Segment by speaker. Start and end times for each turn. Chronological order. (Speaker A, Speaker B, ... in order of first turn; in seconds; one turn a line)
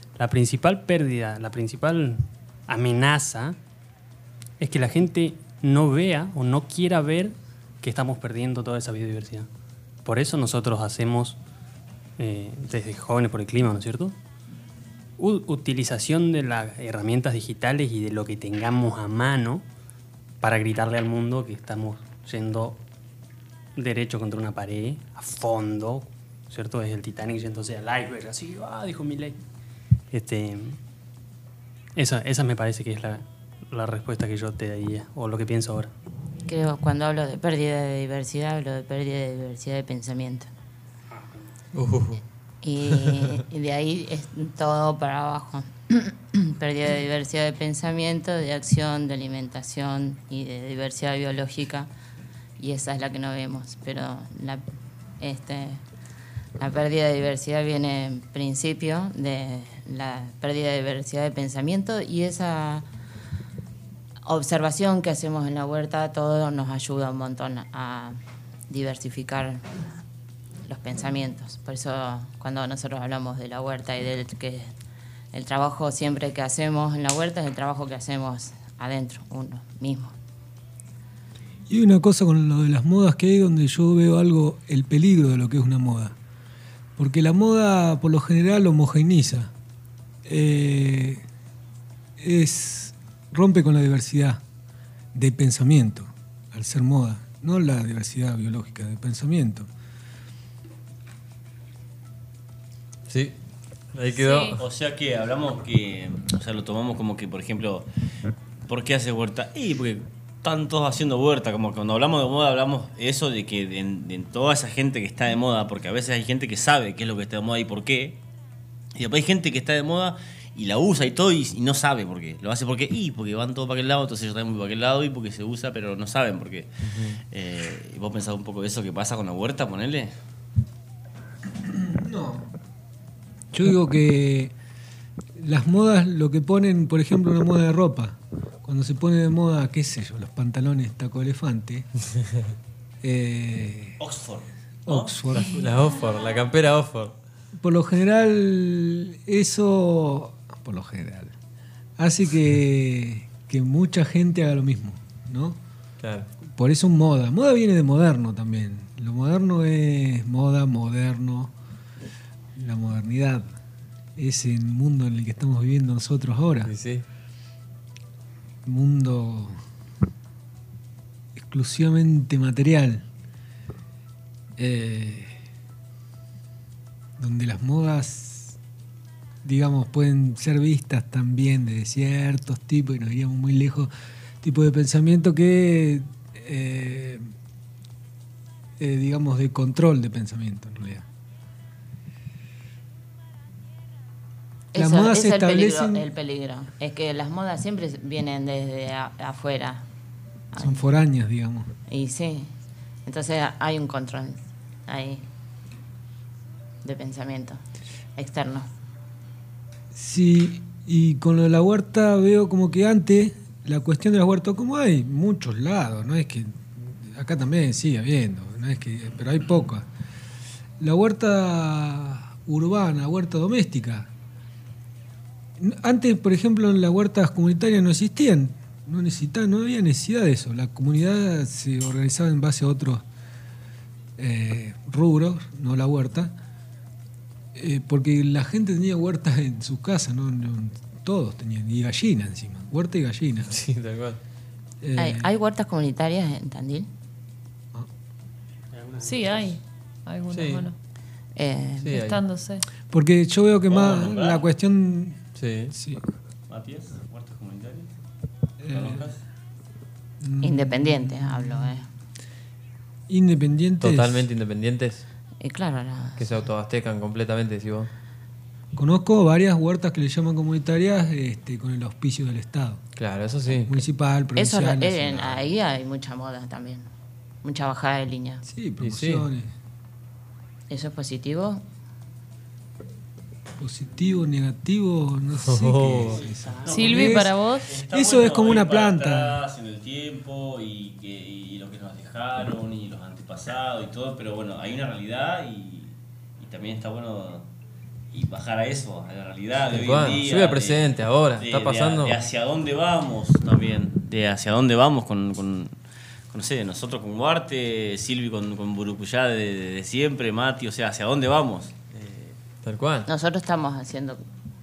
Speaker A: 0.1-3.6
Speaker A: 4.6-9.5
Speaker A: 10.0-11.4
Speaker A: 12.2-14.2
Speaker A: 15.2-19.6
Speaker A: 20.4-22.8
Speaker A: 23.7-29.4
Speaker A: 30.1-30.8
Speaker A: 31.9-35.9
Speaker B: 36.5-40.5
Speaker C: 41.7-42.2
Speaker B: 42.6-51.9
Speaker C: 42.9-43.4
Speaker B: 52.6-54.6
Speaker B: 55.2-55.8
Speaker B: 56.6-62.9
Speaker B: 64.2-68.2
Speaker B: 68.7-69.9
Speaker B: 70.7-74.7
Speaker B: 75.3-80.1
Speaker D: 81.7-86.2
Speaker D: 87.0-89.5
Speaker D: 90.2-91.2
Speaker D: 92.2-94.4
Speaker D: 95.1-99.7
Speaker C: 103.1-103.4
Speaker C: 103.9-104.6
Speaker E: 104.2-104.6
Speaker F: 104.6-107.9
Speaker F: 108.7-118.2
Speaker F: 118.9-126.7
Speaker C: 126.8-127.2
Speaker F: 127.3-130.1
Speaker D: 131.6-132.5
Speaker D: 133.5-134.5
Speaker D: 135.4-141.9
Speaker D: 143.0-144.0
Speaker F: 144.0-145.2
Speaker D: 144.8-145.6
Speaker C: 145.3-147.1
Speaker D: 147.6-151.3
Speaker D: 152.0-155.6
Speaker C: 156.0-156.3
Speaker D: 156.6-161.5
Speaker D: 162.6-163.5
Speaker D: 164.2-166.7
Speaker C: 166.6-167.0
Speaker D: 168.6-169.6
Speaker D: 171.4-173.0
Speaker D: 174.6-175.3
Speaker D: 177.2-178.6
Speaker D: 179.4-183.9
Speaker D: 184.4-187.2
Speaker D: 188.8-191.0
Speaker B: 194.7-199.8
Speaker D: 194.7-196.0
Speaker B: 200.5-200.8
Speaker D: 200.6-201.7
Speaker B: 201.9-202.5
Speaker B: 203.1-205.3
Speaker B: 206.8-207.6
Speaker B: 208.2-208.7
Speaker D: 209.9-219.8
Speaker D: 220.8-224.1
Speaker D: 225.6-233.0
Speaker D: 234.2-236.3
Speaker D: 237.5-243.5
Speaker C: 243.4-244.2
Speaker D: 244.8-245.3
Speaker B: 244.9-246.9
Speaker A: 248.8-249.5
Speaker E: 249.0-250.7
Speaker C: 250.3-250.7
Speaker B: 251.4-251.9
Speaker C: 251.8-252.2
Speaker E: 251.9-252.7
Speaker D: 252.9-256.0
Speaker F: 253.7-254.4
Speaker C: 255.3-255.7
Speaker F: 256.5-257.9
Speaker D: 258.6-259.0
Speaker F: 258.7-259.2
Speaker D: 260.2-261.7
Speaker B: 260.4-261.9
Speaker D: 263.1-264.3
Speaker C: 263.8-265.0
Speaker B: 265.4-266.4
Speaker C: 266.2-267.9
Speaker D: 268.7-272.8
Speaker C: 272.9-273.8
Speaker D: 273.6-275.5
Speaker B: 274.4-276.9
Speaker B: 277.4-278.4
Speaker D: 278.4-279.5
Speaker C: 278.8-279.3
Speaker B: 280.7-281.6
Speaker D: 283.6-289.4
Speaker C: 285.4-286.2
Speaker A: 286.2-286.9
Speaker F: 286.6-287.1
Speaker E: 286.7-287.7
Speaker F: 287.7-297.5
Speaker F: 298.1-300.8
Speaker C: 299.7-302.2
Speaker F: 301.4-305.7
Speaker F: 306.3-312.3
Speaker C: 312.6-313.1
Speaker B: 313.1-314.2